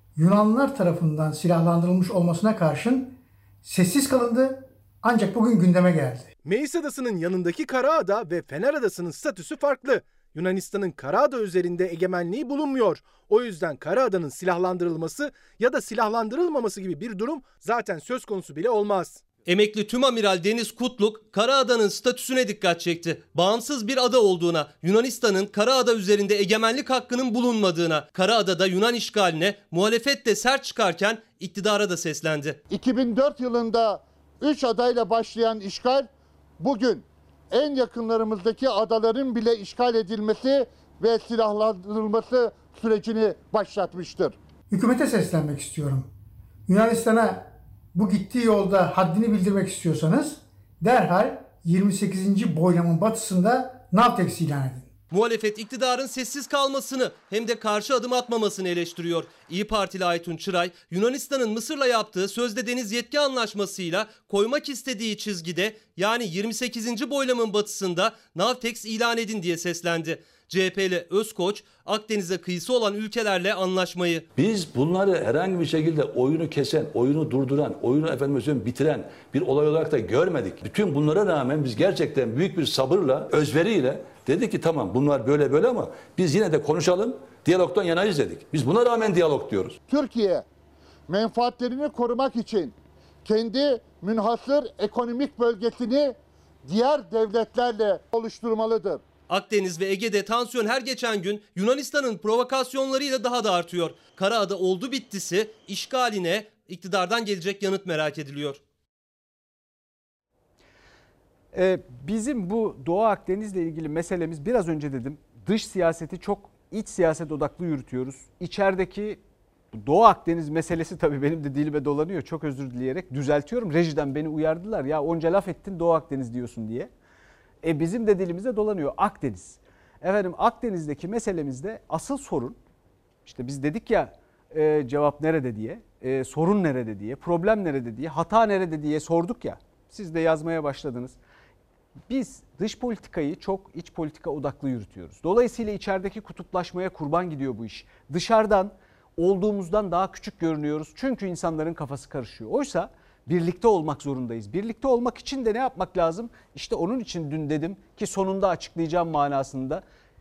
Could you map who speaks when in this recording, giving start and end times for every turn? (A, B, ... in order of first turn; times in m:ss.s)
0:00.2-0:06.3 A
0:06.4-0:19.2 B
0:19.5-0:32.6 C
0:32.7-0:36.1 D
0:36.6-0:44.4 D
0:44.7-0:46.1 A
0:46.7-0:54.9 A
0:55.1-1:14.2 C
1:14.4-1:29.8 E
1:29.9-1:30.4 D
1:31.1-1:39.0 D
1:39.3-1:48.6 C
1:51.5-1:59.2 F
1:59.7-2:06.9 F
2:07.6-2:12.6 F
2:13.2-2:21.2 F
2:22.1-2:39.8 F